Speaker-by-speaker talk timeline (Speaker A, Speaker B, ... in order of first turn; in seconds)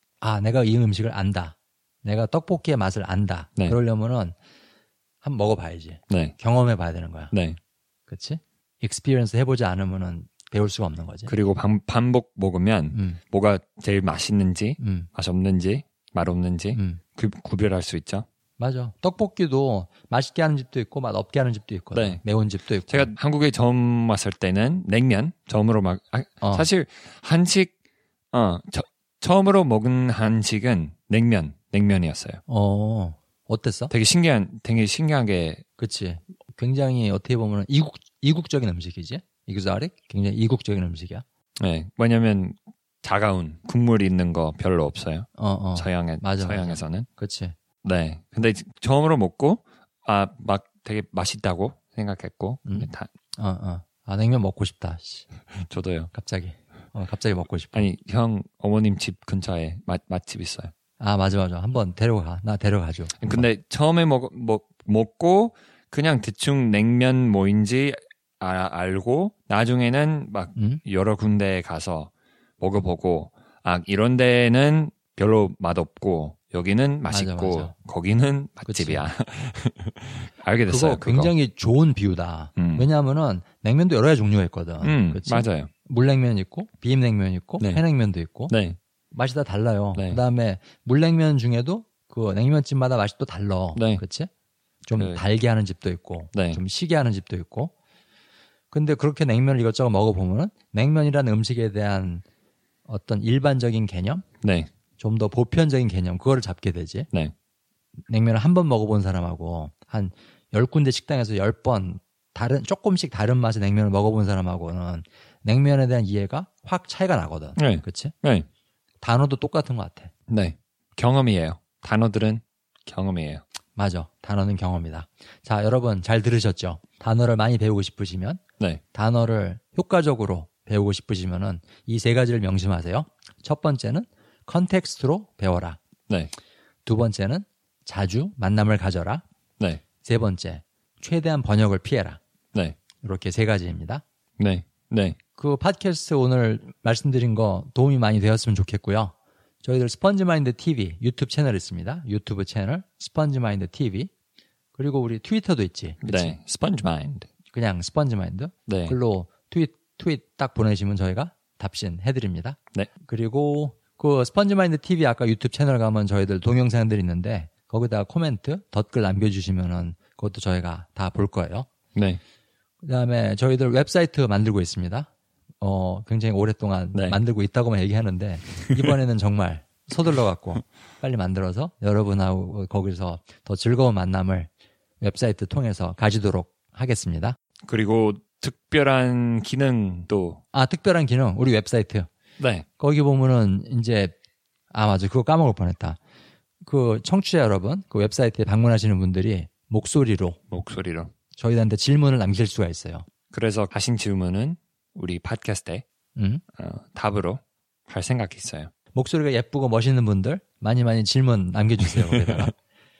Speaker A: 0.2-4.3, 5.2-7.3, 8.1-11.3, 12.9-13.2, 14.8-15.1, 16.7-17.0, 18.6-23.1, 26.4-26.7, 32.5-33.9, 35.8-41.2, 45.4-47.5, 52.6-55.2, 56.1-57.9, 61.0-63.5, 70.5-70.8, 77.1-77.7, 78.7-79.0, 80.7-88.5, 89.1-94.3, 94.8-97.7, 98.7-102.2, 102.9-104.2, 105.0-107.1, 108.1-118.1, 119.0-120.1, 123.8-128.4, 128.9-135.8, 136.8-139.2, 140.0-142.2, 143.0-144.0, 145.3-154.1, 154.7-156.3, 157.5-171.7, 172.8-175.1, 175.6-184.5, 185.0-187.3, 190.5-192.1, 192.8-194.1, 194.7-196.0, 196.6-200.4, 201.4-203.1, 206.2-206.4, 208.9-212.5
Speaker B: 6.1-6.3, 7.3-7.6, 11.3-18.2, 21.9-22.2, 22.9-27.7, 28.3-32.4, 33.9-35.6, 41.6-47.1, 47.8-53.1, 55.5-56.1, 57.7-60.7, 63.2-81.3, 82.6-82.9, 84.8-85.7, 88.5-88.8, 93.8-94.0, 95.0-95.2, 96.3-96.6, 104.4-104.7, 117.5-118.5, 120.3-123.4, 144.4-145.2, 156.0-157.3, 158.7-159.0, 171.9-172.2, 176.9-177.2, 187.6-190.4, 192.4-192.7, 200.5-201.1, 203.3-205.8, 206.5-208.7, 211.9-212.5